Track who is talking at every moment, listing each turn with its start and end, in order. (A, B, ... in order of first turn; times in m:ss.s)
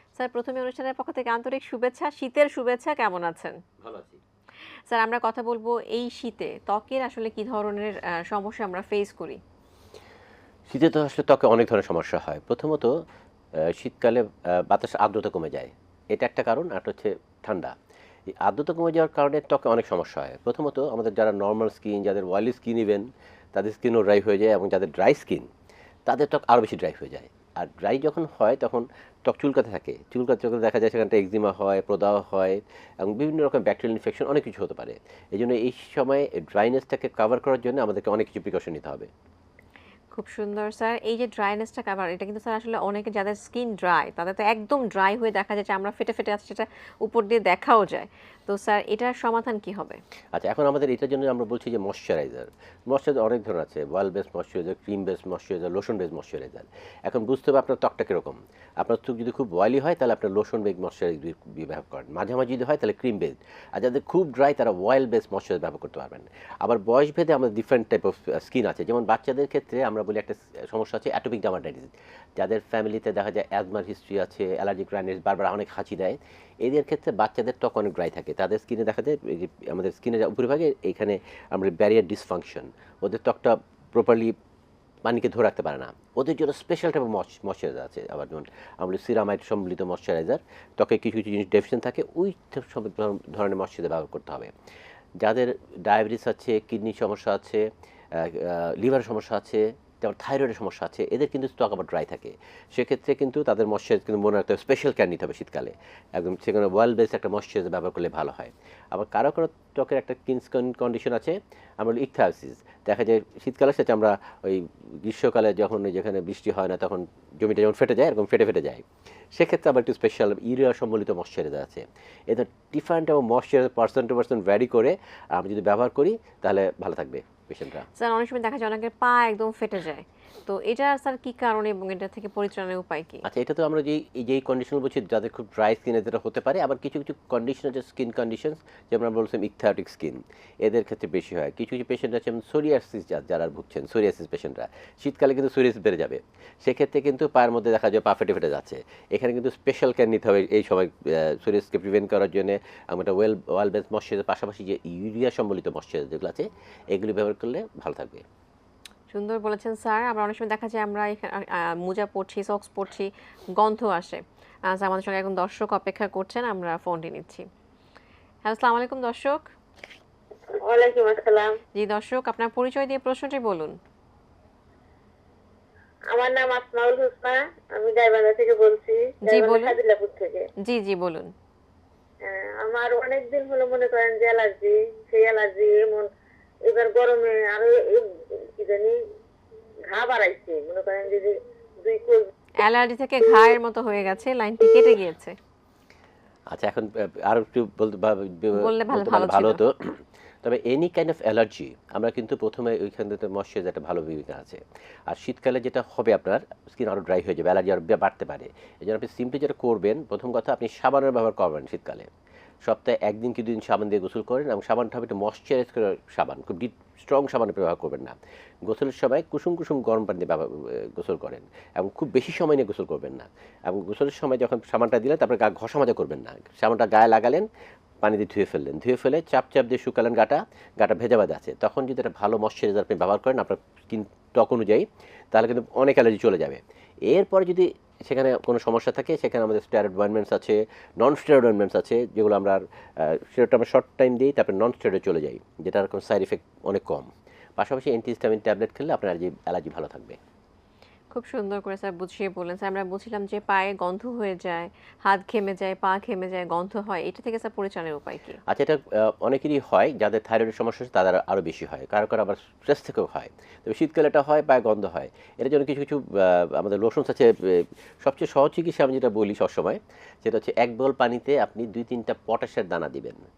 0:00.2-0:03.6 A
0:03.8-0:04.2 B
0:04.9-0:09.4 A
0:10.7-0:13.0 B
0:13.6-0:17.7 B
0:18.3-0:25.5 B
0:26.0-0:39.1 B
0:40.1-0:50.0 A
0:50.3-1:24.3 B
1:25.0-1:34.5 B
1:35.2-2:07.9 B
2:08.0-2:13.2 A
2:13.2-2:38.2 B
2:39.1-2:47.5 A
2:48.4-2:49.5 A
2:50.6-2:51.6 C
2:51.8-2:53.8 A
2:56.1-3:00.5 C
2:59.3-2:59.8 A
3:00.6-3:01.3 A
3:02.2-3:06.1 C
3:06.6-3:09.0 C
3:09.9-3:12.3 C
3:12.6-3:15.4 A
3:16.5-3:32.1 B
3:18.5-3:19.6 A
3:32.6-3:47.5 B
3:48.0-4:10.2 B
4:11.1-4:18.4 A
4:18.5-4:33.2 B